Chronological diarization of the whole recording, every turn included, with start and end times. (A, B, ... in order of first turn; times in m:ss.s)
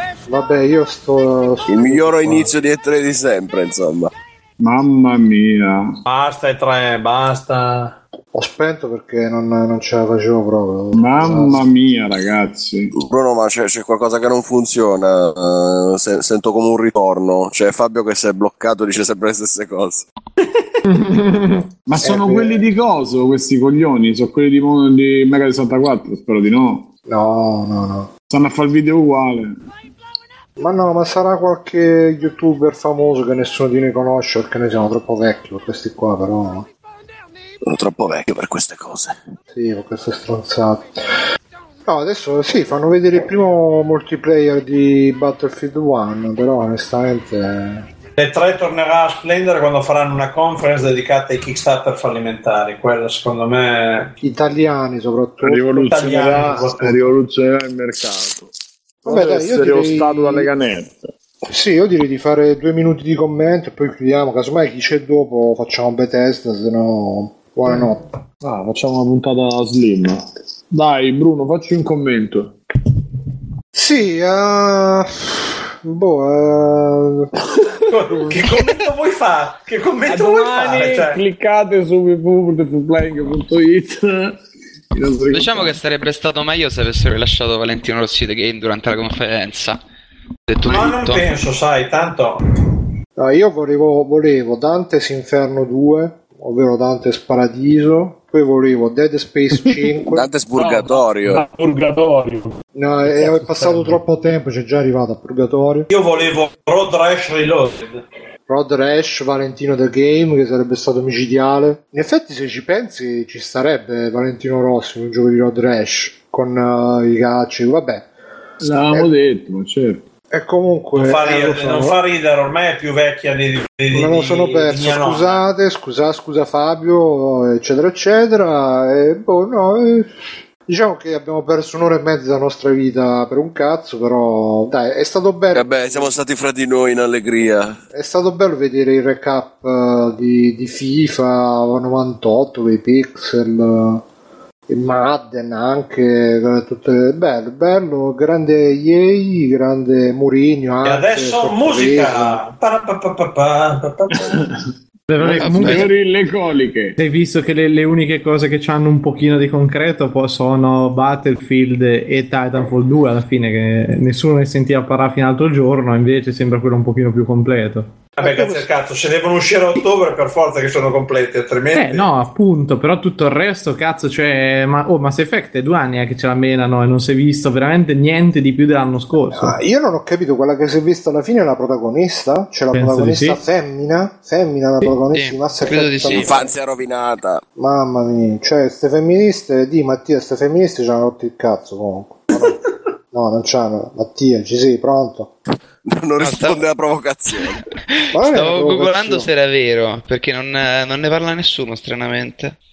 0:00.3-0:02.5 A
0:01.7-0:04.1 B
0:04.6-0:05.9 C
0:06.0-0:08.0 D
0:08.3-0:11.6 A
0:10.9-0:12.9 C
0:13.0-0:20.0 B
0:20.9-0:21.6 E
0:21.9-0:26.9 C
0:22.0-0:22.6 A
0:27.0-0:28.1 A
0:28.3-0:29.5 C
0:30.6-0:36.6 A
0:37.6-0:39.1 B
0:39.5-0:40.9 A
0:41.8-0:47.8 A
0:48.2-0:54.1 D
0:54.2-0:55.9 A
0:55.4-0:58.5 C
0:55.8-0:57.0 D
0:59.0-1:00.5 A
0:59.0-1:01.1 C
1:01.4-1:08.0 A
1:08.4-1:12.5 C
1:13.7-1:17.3 A
1:17.9-1:21.2 D
1:20.0-1:24.4 C
1:24.9-1:25.8 C
1:25.3-1:29.8 F
1:30.5-1:31.2 F
1:30.6-1:32.4 D
1:33.2-1:40.3 A
1:40.1-1:41.4 B
1:40.5-1:42.5 G
1:42.7-1:45.9 A
1:43.1-1:44.0 G
1:45.9-1:48.0 D
1:48.5-1:58.0 A
1:58.6-2:00.0 C
2:00.3-2:02.0 A
2:00.9-2:05.4 D
2:03.9-2:16.1 A
2:15.5-2:17.8 B
2:17.9-2:24.0 A
2:24.7-2:32.4 A
2:30.8-2:34.3 D
2:34.2-2:34.5 C
2:35.1-2:35.9 E
2:35.2-2:37.0 C
2:35.4-2:35.9 F
2:37.0-2:47.9 E
2:48.2-2:52.1 D
2:48.2-2:48.6 A
2:51.7-2:59.6 E
2:59.3-3:06.4 A
3:02.7-3:03.4 E
3:05.1-3:06.4 F
3:06.1-3:07.4 B
3:07.6-3:12.6 A
3:13.1-3:15.3 A
3:15.9-3:17.6 B
3:16.2-3:16.6 F
3:17.9-3:22.5 F
3:18.1-3:19.3 A